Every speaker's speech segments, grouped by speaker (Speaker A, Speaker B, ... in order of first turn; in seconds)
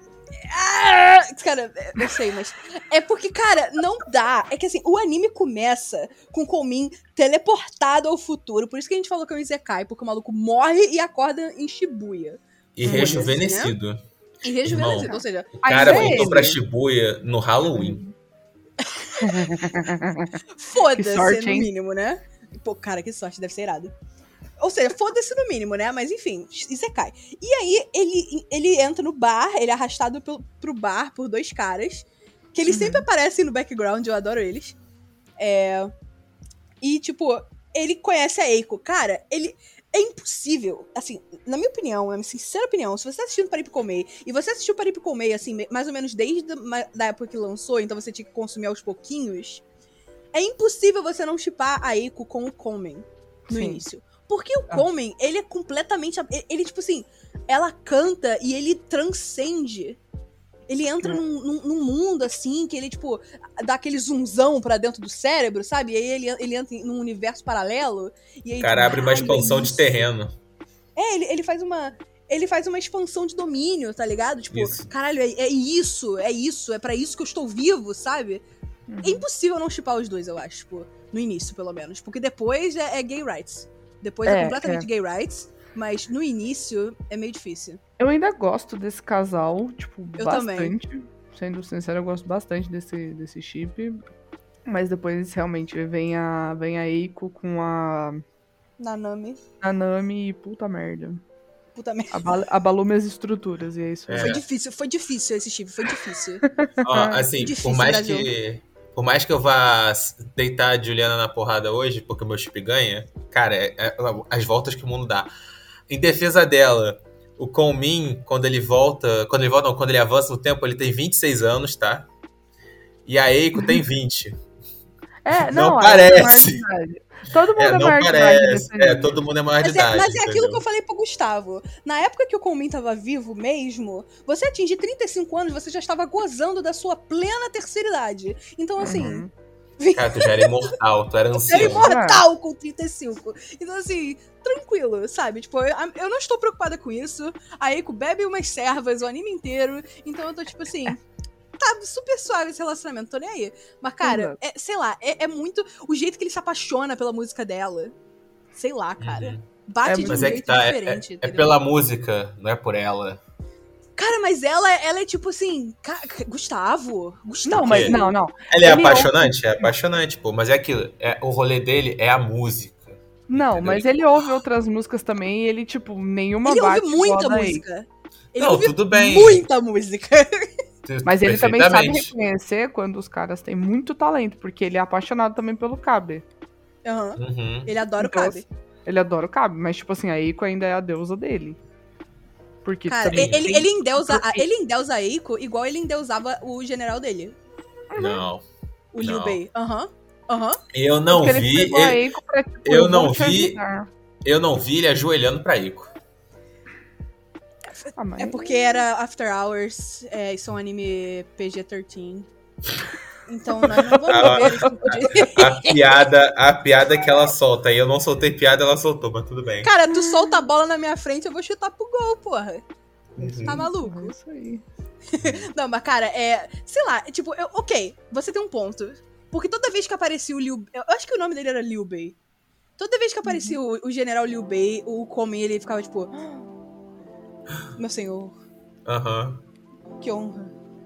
Speaker A: 0.4-13.7, 14.4-16.3, 18.8-19.4, 20.6-23.9, 24.6-34.8, 35.4-35.9, 36.8-49.6, 50.3-60.0, 60.7-69.8, 71.0-78.4, 79.0-87.8, 90.2-90.7, 98.8-99.4, 101.8-102.2, 104.2-106.5, 107.4-108.3, 129.6-139.2, 139.8-140.5, 141.4-151.0, 151.6-157.9, 158.5-161.6, 164.0-168.1, 176.4-180.5, 186.8-188.4, 192.9-197.3, 198.9-200.6, 208.2-212.3, 213.3-215.9, 219.6-222.6, 223.4-224.2, 225.1-232.2, 232.8-236.3, 237.8-238.3, 240.0-240.5
Speaker B: 12.8-14.0, 14.7-15.1, 15.7-18.0, 68.6-70.3, 74.5-74.9, 104.1-104.4, 106.8-115.3, 115.9-122.1, 123.1-124.4, 125.4-126.6, 127.6-130.6, 139.9-141.9, 159.0-159.4, 160.1-163.2, 167.6-168.0, 168.5-173.9, 178.4-179.4, 180.8-182.1, 187.2-187.7, 193.1-193.4, 198.0-198.4, 199.0-199.4, 200.7-202.0, 202.7-203.6, 204.2-205.9, 214.1-219.7, 223.2-223.7, 238.9-239.4
Speaker C: 12.8-13.3, 14.9-16.6, 17.7-18.1, 19.2-20.4, 20.9-21.7, 32.7-33.0, 53.5-53.8, 78.9-79.2, 84.3-84.8, 88.0-94.0, 94.7-98.2, 99.6-101.2, 102.1-104.3, 106.5-107.2, 125.2-129.1, 138.8-139.3, 141.8-142.2, 154.0-154.4, 159.8-160.4, 167.5-169.7, 173.3-177.6, 181.1-186.2, 188.0-191.6, 192.6-194.4, 197.9-198.2, 201.1-203.9, 207.9-208.8, 213.6-214.8, 219.9-220.4, 223.2-224.6, 233.2-233.6